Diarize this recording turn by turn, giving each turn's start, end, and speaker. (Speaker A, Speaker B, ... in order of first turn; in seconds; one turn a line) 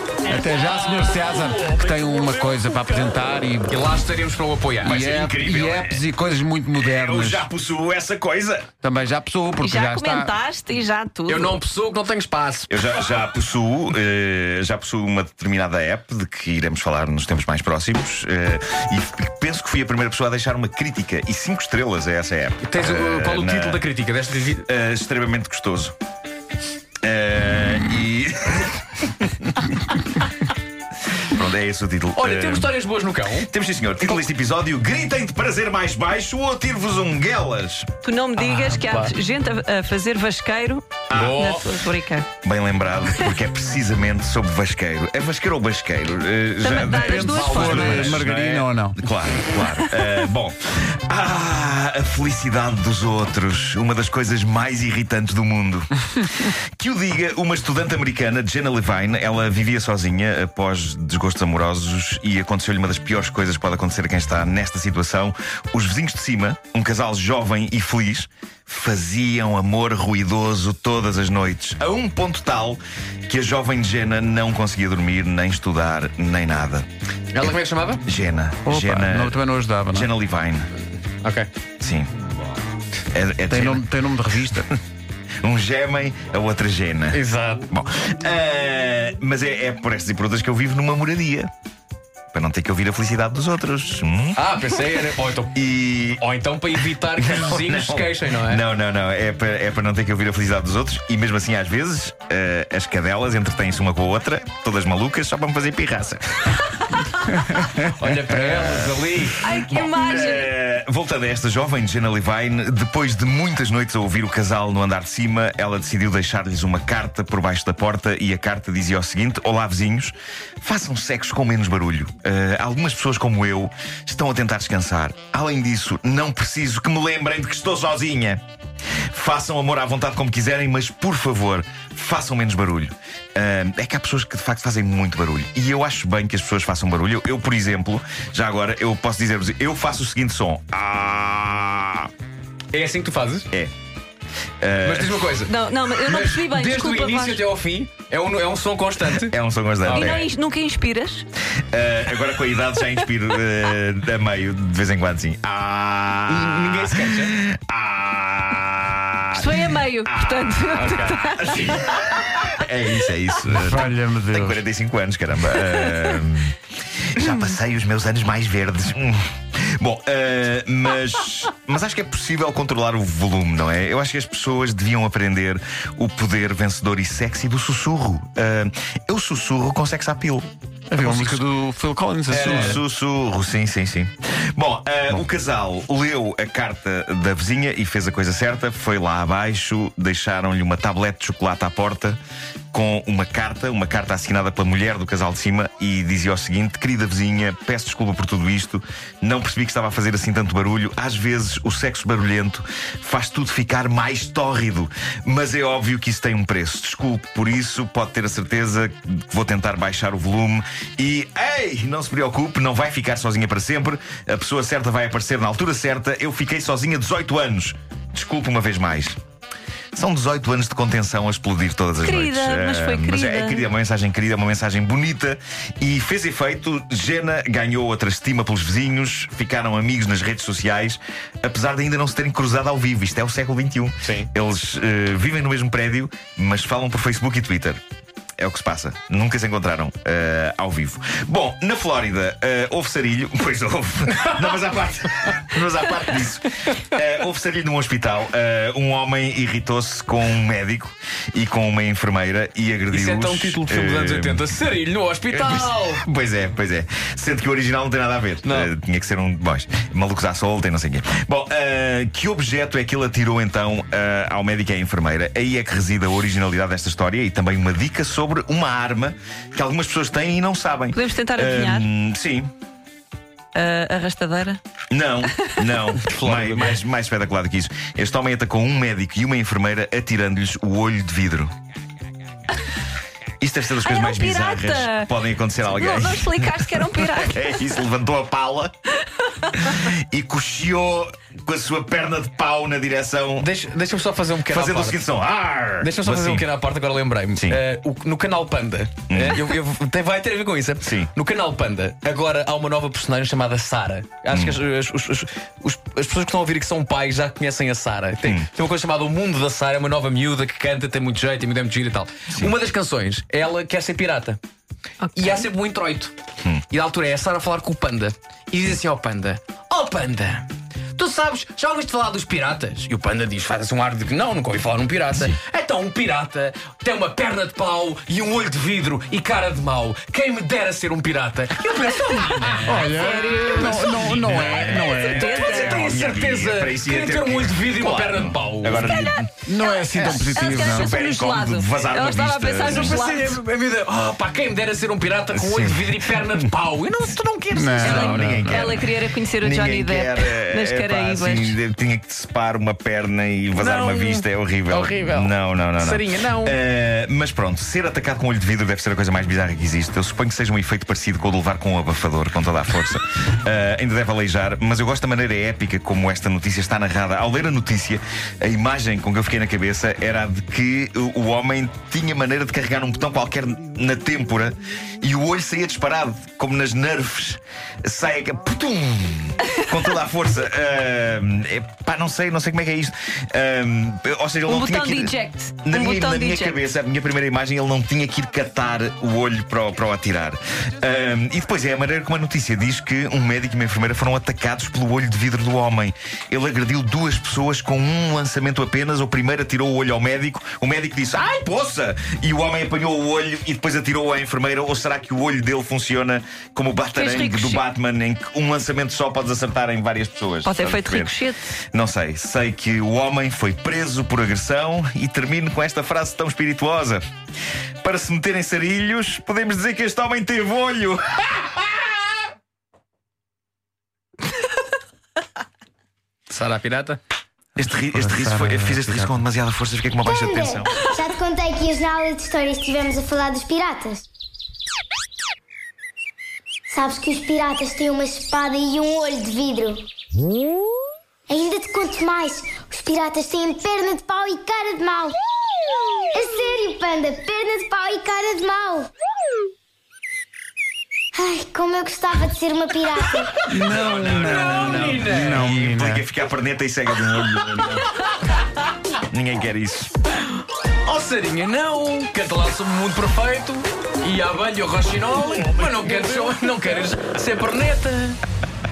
Speaker A: 0.3-3.8
Speaker B: 3.7-5.0
Speaker C: 4.8-6.0
Speaker A: 4.8-7.5
Speaker C: 6.8-8.7
Speaker A: 8.8-10.3
Speaker D: 9.6-11.6
Speaker B: 11.3-12.8
Speaker C: 12.7-23.8
Speaker B: 22.6-24.6
Speaker C: 24.6-25.9
Speaker C: 27.0-29.6
Speaker C: 31.2-32.8
Speaker B: 32.2-33.5
Speaker C: 33.5-37.9
Speaker D: 38.0-42.3
Speaker B: 38.4-39.1
Speaker C: 41.1-41.4
Speaker B: 41.1-41.7
Speaker C: 42.4-76.9
Speaker D: 46.6-48.2
Speaker A: 46.9-49.0
Speaker B: 77.3-78.0
Speaker C: 77.4-79.4
Speaker A: 78.7-80.1
Speaker C: 79.9-80.7
Speaker B: 81.2-81.5
Speaker C: 81.8-82.1
Speaker C: 83.1-83.9
Speaker A: 83.5-84.7
Speaker C: 84.4-84.7
Speaker C: 85.4-91.5
Speaker B: 87.1-87.7
Speaker C: 92.3-94.4
Speaker B: 94.4-95.6
Speaker C: 95.5-96.2
Speaker B: 96.2-98.6
Speaker C: 97.2-106.7
Speaker B: 107.8-109.4
Speaker D: 109.4-110.5
Speaker C: 109.5-128.4
Speaker C: 129.1-142.1
Speaker B: 142.7-143.5
Speaker C: 144.6-145.3
Speaker B: 144.8-150.3
Speaker D: 145.5-147.4
Speaker C: 149.2-150.3
Speaker D: 149.9-151.3
Speaker C: 151.7-166.6
Speaker B: 156.3-157.4
Speaker D: 159.3-161.8
Speaker B: 160.7-161.2
Speaker A: 163.4-164.6
Speaker C: 167.1-181.5
Speaker A: 180.9-182.8
Speaker C: 182.3-192.2
Speaker B: 182.4-182.7
Speaker C: 192.7-219.2
Speaker C: 219.9-237.8
Speaker D: 222.0-223.7
Speaker B: 234.0-234.3
Speaker C: 238.4-254.5
Speaker B: 252.9-256.0
Speaker C: 255.3-272.5
Speaker B: 258.4-258.7
Speaker D: 270.9-271.9
Speaker D: 273.5-274.6
Speaker C: 274.9-281.5
Speaker B: 276.0-276.8
Speaker C: 283.4-288.7
Speaker D: 283.8-285.1
Speaker D: 285.7-287.6
Speaker C: 289.5-293.5
Speaker B: 293.4-295.0
Speaker C: 294.5-296.5
Speaker B: 295.8-314.4
Speaker C: 299.1-299.4
Speaker C: 300.8-301.1
Speaker C: 304.3-304.6
Speaker D: 315.1-315.4
Speaker B: 315.1-316.1
Speaker B: 316.7-338.9
Speaker D: 332.5-336.0
Speaker A: 332.6-335.2
Speaker C: 334.5-339.3
Speaker D: 338.8-343.4
Speaker A: 339.5-340.9
Speaker B: 339.9-340.5
Speaker C: 340.6-343.0
Speaker B: 342.6-348.0
Speaker C: 345.3-345.6
Speaker A: 347.5-348.7
Speaker D: 347.8-351.6
Speaker C: 347.8-411.1
Speaker B: 353.6-356.6
Speaker D: 384.5-386.6
Speaker D: 406.9-407.6
Speaker D: 410.4-411.4
Speaker C: 411.7-417.0
Speaker C: 417.8-421.6
Speaker B: 426.3-427.0
Speaker C: 427.6-430.8
Speaker A: 427.9-429.2
Speaker E: 430.0-434.1
Speaker E: 436.7-439.9
Speaker E: 441.3-445.2
Speaker E: 446.1-448.9
Speaker E: 451.1-453.5
Speaker A: 453.5-456.0
Speaker B: 453.6-455.5
Speaker C: 453.6-457.9
Speaker C: 459.1-459.9
Speaker B: 460.9-468.2